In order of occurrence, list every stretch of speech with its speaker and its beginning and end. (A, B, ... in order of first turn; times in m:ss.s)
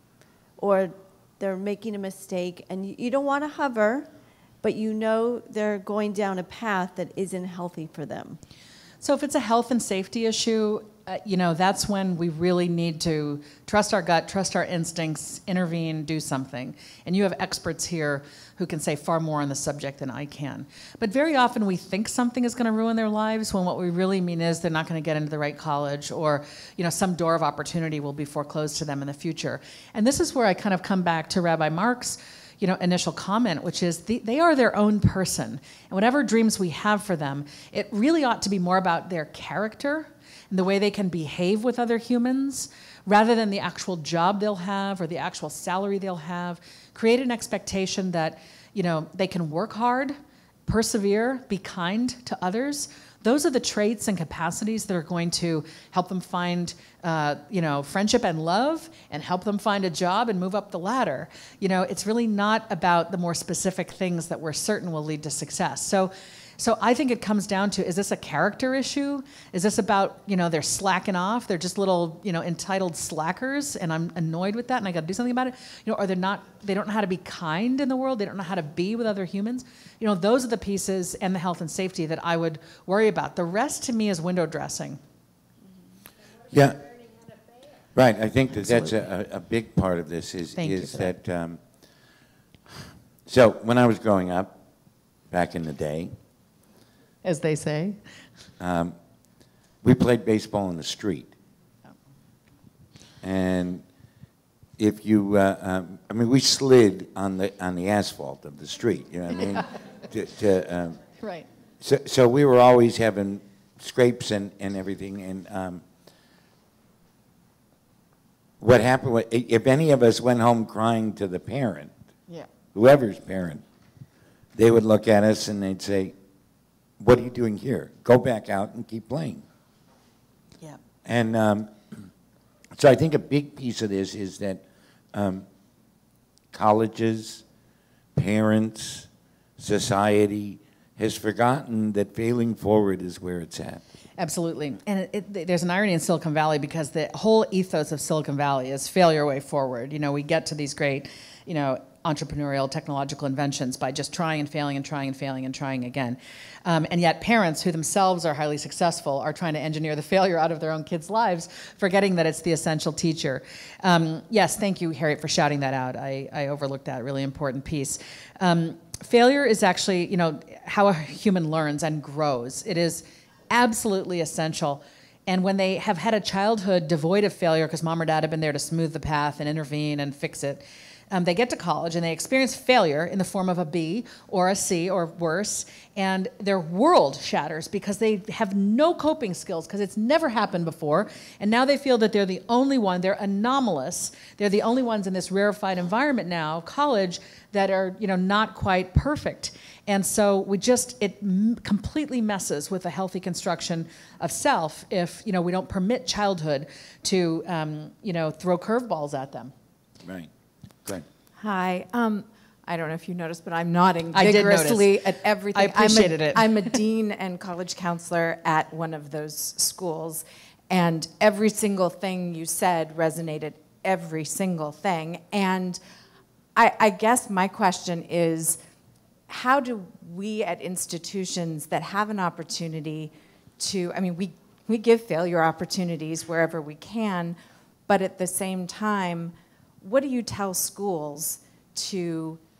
0:00.6-0:04.1 A
0:04.6-0:08.4 A
0:09.0-1:25.0 B
1:26.5-1:26.9 C
1:28.0-1:31.6 C
1:28.6-1:28.9 B
1:30.6-1:31.1 B
1:33.3-1:34.6 C
1:35.3-1:36.1 C
1:37.2-1:38.0 B
1:38.6-1:39.0 C
1:39.8-1:41.3 C
1:43.2-1:43.8 C
1:44.8-1:51.0 C
1:51.2-1:51.4 B
1:51.8-1:55.8 C
1:58.6-2:01.9 C
2:02.8-2:03.6 C
2:04.6-2:06.2 C
2:07.0-2:09.4 C
2:11.0-2:11.7 C
2:12.8-2:15.4 C
2:16.5-2:17.4 C
2:18.2-2:19.1 C
2:19.6-2:23.8 C
2:24.2-3:29.5 B
3:31.4-3:45.8 D
3:34.1-3:36.8 B
3:46.6-3:48.6 D
3:49.3-4:02.4 D